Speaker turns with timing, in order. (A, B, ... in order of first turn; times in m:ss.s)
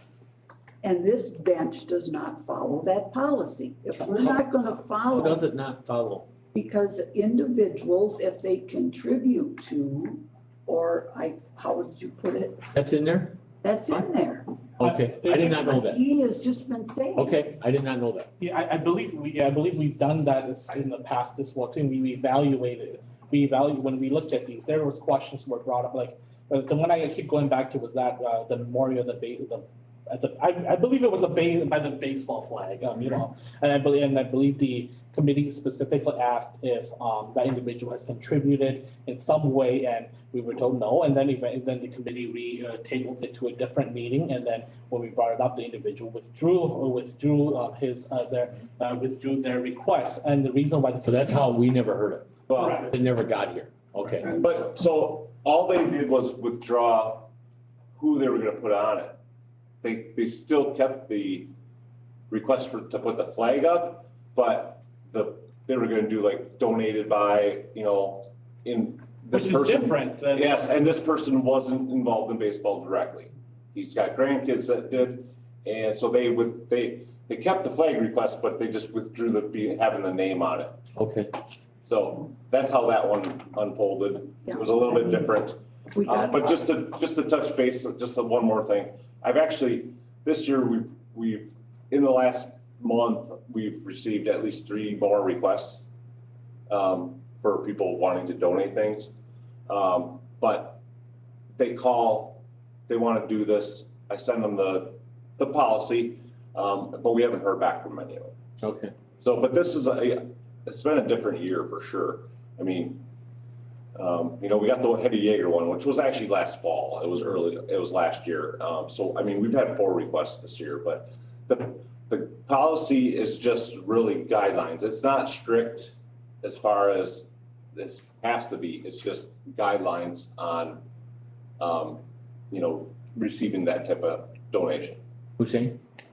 0:00.8-0:05.5 A
0:04.2-0:04.5 B
0:05.1-0:06.3 B
0:06.5-0:12.6 A
0:12.7-0:13.4 B
0:13.6-0:14.6 A
0:14.8-0:16.0 B
0:14.8-0:15.4 C
0:15.2-0:17.5 A
0:17.2-0:18.3 B
0:18.4-0:51.6 C
0:51.0-0:52.3 B
0:52.5-0:52.9 D
0:52.5-0:52.9 C
0:52.9-0:54.4 B
0:54.4-0:57.3 D
0:58.0-0:59.2 D
0:59.8-1:01.5 D
1:02.3-1:20.8 D
1:09.3-1:10.7 C
1:21.0-1:21.4 B
1:21.8-1:35.9 D
1:24.5-1:24.9 A
1:25.9-1:26.6 A
1:36.7-1:39.1 D
1:39.7-1:40.8 D
1:41.6-1:48.3 D
1:48.6-1:48.9 B
1:49.2-1:53.0 D
1:54.0-2:10.8 D
2:11.6-2:15.0 D
2:15.4-2:15.8 B